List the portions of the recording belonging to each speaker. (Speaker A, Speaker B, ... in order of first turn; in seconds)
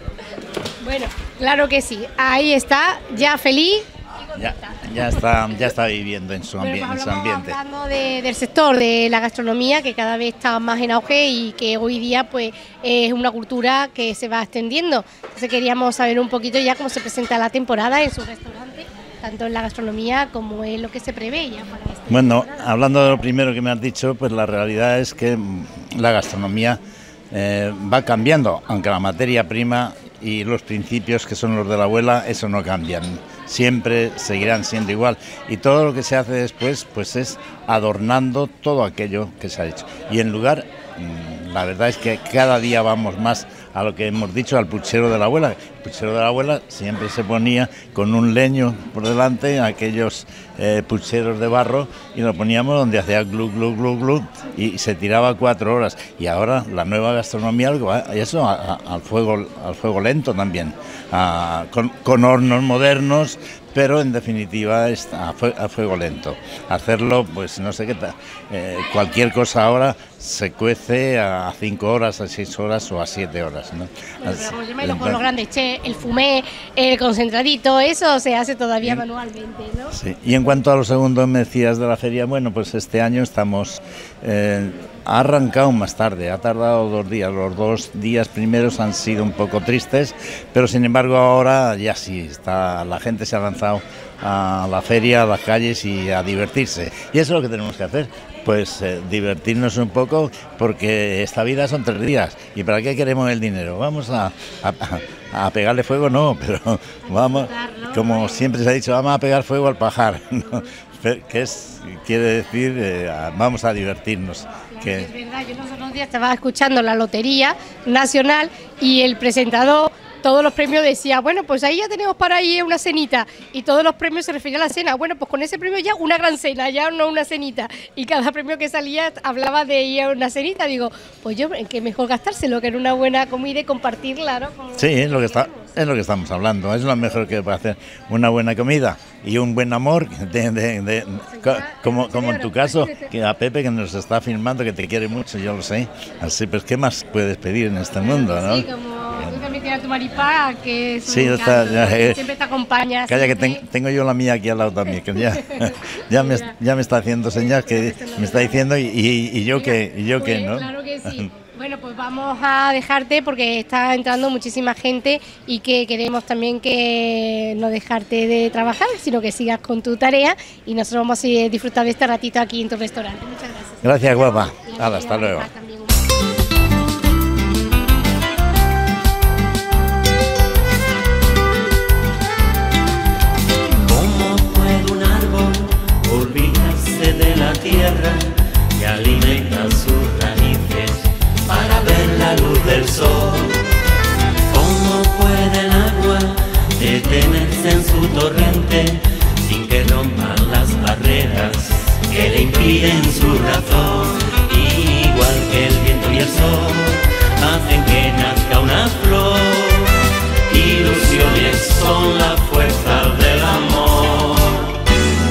Speaker A: 0.8-4.8, 6.6-22.7, 74.2-80.0, 107.1-108.4, 114.7-135.7, 141.3-143.1, 148.0-153.6, 155.4-156.5, 157.7-158.6, 159.5-176.0
Speaker B: 4.3-7.6, 22.1-75.2, 79.9-115.1, 134.7-148.7, 151.1-152.2, 153.1-161.3, 173.8-175.5
Speaker C: 183.8-193.7, 194.5-214.9